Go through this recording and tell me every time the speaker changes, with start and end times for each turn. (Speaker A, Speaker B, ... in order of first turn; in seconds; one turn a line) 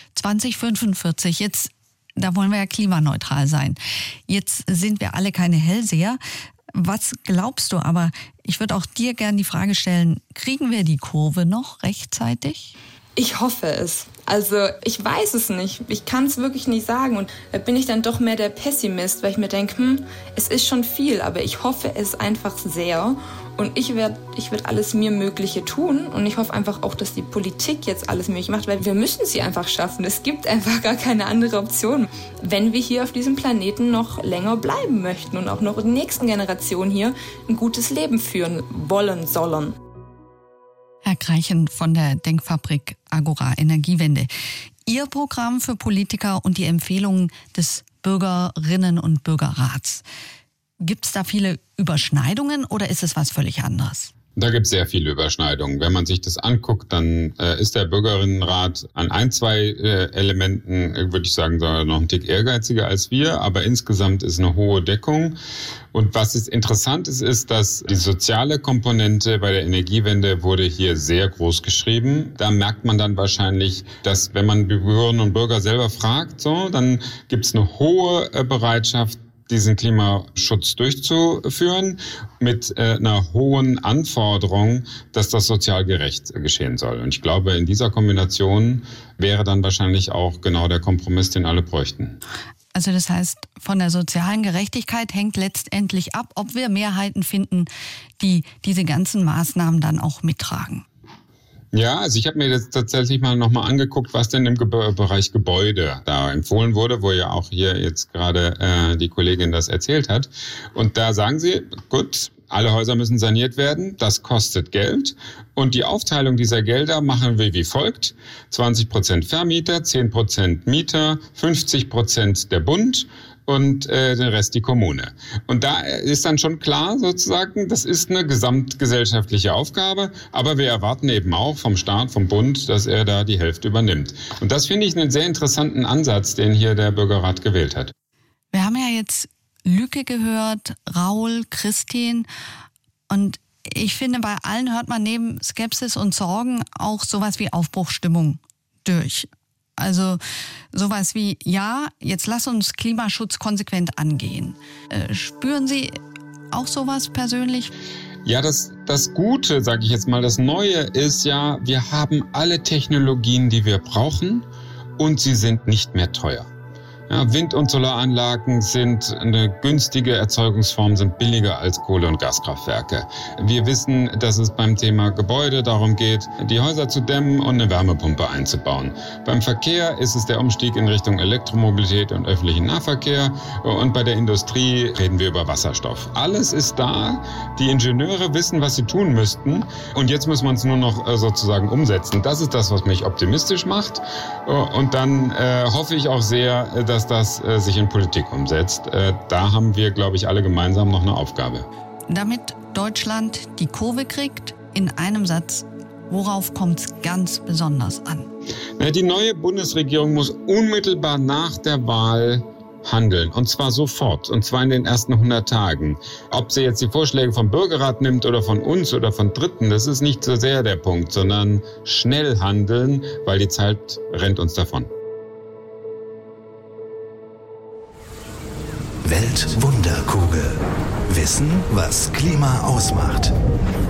Speaker A: 0.2-6.2
Speaker A: 6.7-12.8
Speaker B: 13.2-39.8
Speaker A: 41.0-44.3
Speaker A: 44.9-50.0
Speaker A: 50.8-54.1
Speaker C: 54.4-65.4
Speaker C: 65.9-92.2
Speaker A: 92.7-97.7
Speaker A: 98.2-100.8
Speaker C: 101.7-137.9
Speaker A: 138.5-142.3
Speaker A: 143.1-150.2
Speaker A: 150.7-156.0
Speaker A: 156.5-157.7
Speaker C: 158.2-164.5
Speaker C: 165.0-166.5
Speaker C: 167.1-201.7
Speaker A: 202.1-208.3
Speaker C: 208.8-224.9
Speaker D: 229.0-233.3